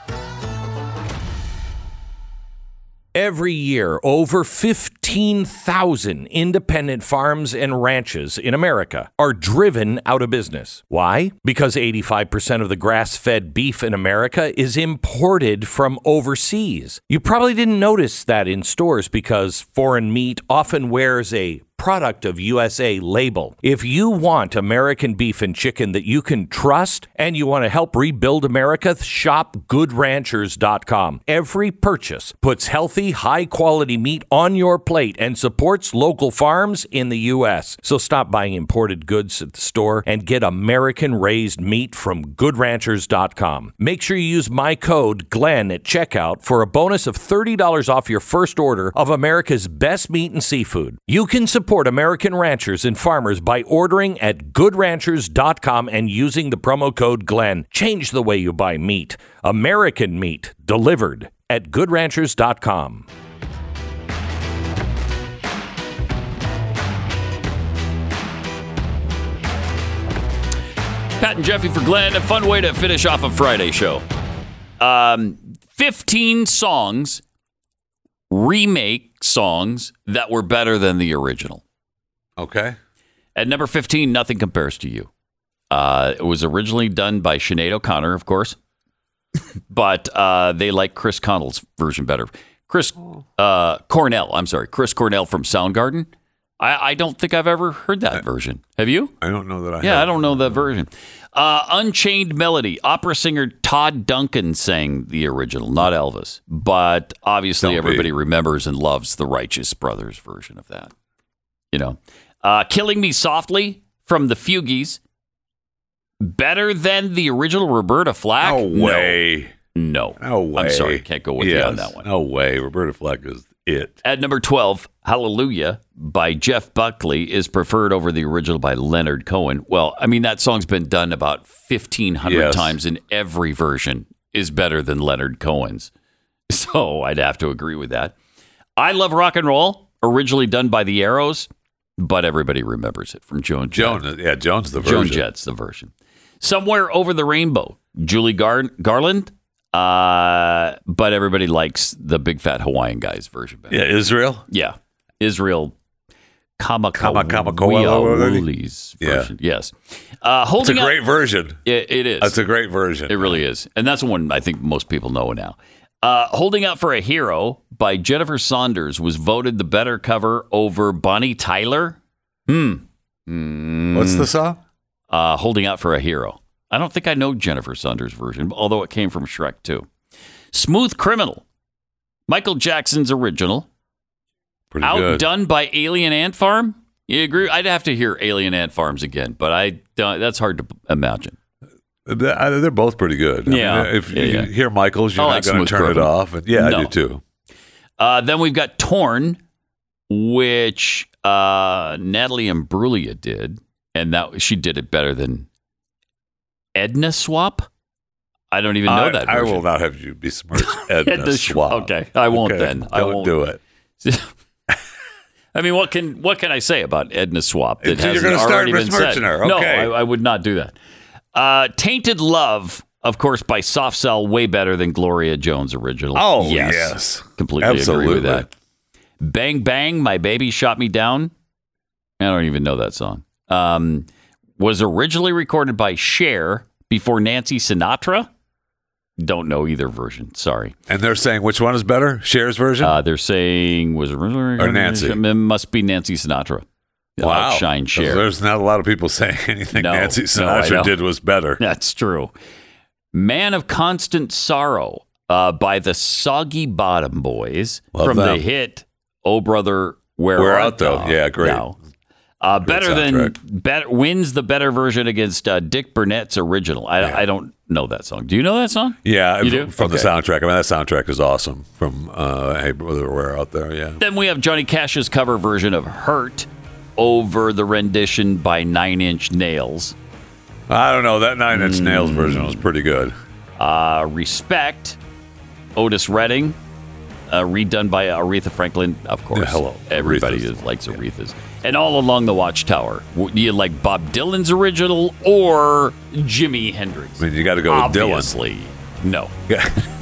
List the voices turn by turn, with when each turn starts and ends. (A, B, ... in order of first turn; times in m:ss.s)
0:03.1-1:03.0 A
1:11.2-1:14.0 B
1:14.8-1:17.2 B
1:18.3-1:21.6 B
1:22.4-1:22.8 C
1:23.4-1:25.1 B
1:25.7-1:28.6 B
1:29.7-1:39.1 B
1:39.2-1:40.7 C
1:39.8-1:50.9 B
1:47.6-1:48.1 C
1:51.7-1:55.0 B
1:56.2-1:59.2 B
1:58.4-1:59.5 C
1:59.7-2:02.0 B
2:00.2-2:04.0 C
2:04.0-2:15.9 B
2:12.2-2:12.8 C
2:16.5-2:18.1 B
2:18.8-2:24.0 B
2:23.7-2:25.2 C
2:24.8-2:33.8 B
2:33.7-2:34.4 C
2:34.5-2:35.7 B
2:36.6-2:41.0 B
2:36.9-2:38.5 C
2:39.0-2:39.3 C
2:40.6-2:41.6 C
2:41.6-2:42.4 B
2:42.2-2:43.4 C
2:43.1-2:54.3 B
2:53.9-2:54.6 C
2:55.1-2:59.9 B
3:00.5-3:01.4 B
3:02.3-3:03.7 B
3:04.7-3:05.2 C
3:04.8-3:11.4 B
3:12.0-3:17.2 C
3:13.5-3:14.5 B
3:15.2-3:16.9 B
3:18.0-3:19.4 B
3:20.1-3:25.5 B
3:26.7-3:27.7 B
3:28.5-3:29.6 B
3:28.8-3:33.6 C
3:30.6-3:33.3 B
3:34.0-3:34.3 B
3:35.5-3:40.7 B
3:37.8-3:39.9 C
3:41.3-3:48.5 B
3:46.1-3:48.5 C
3:49.2-3:51.3 B
3:52.2-3:54.1 B
3:54.6-3:58.3 B
3:59.2-4:00.7 B
4:00.9-4:03.0 C
4:02.8-4:06.6 B
4:04.6-4:05.2 C
4:07.2-4:08.2 B
4:07.2-4:11.6 C
4:09.7-4:10.9 B
4:11.6-4:12.3 B
4:13.1-4:21.8 B
4:17.9-4:18.4 C
4:20.4-4:21.7 C
4:22.4-4:30.1 B
4:22.6-4:23.3 C
4:29.0-4:34.0 C
4:34.0-4:40.0 B
4:40.7-4:43.2 C
4:41.5-4:42.6 B
4:43.6-4:45.0 B
4:45.8-4:46.6 B
4:47.3-4:59.3 B
4:49.3-4:51.0 C
4:57.2-4:58.3 C
4:59.5-4:59.8 C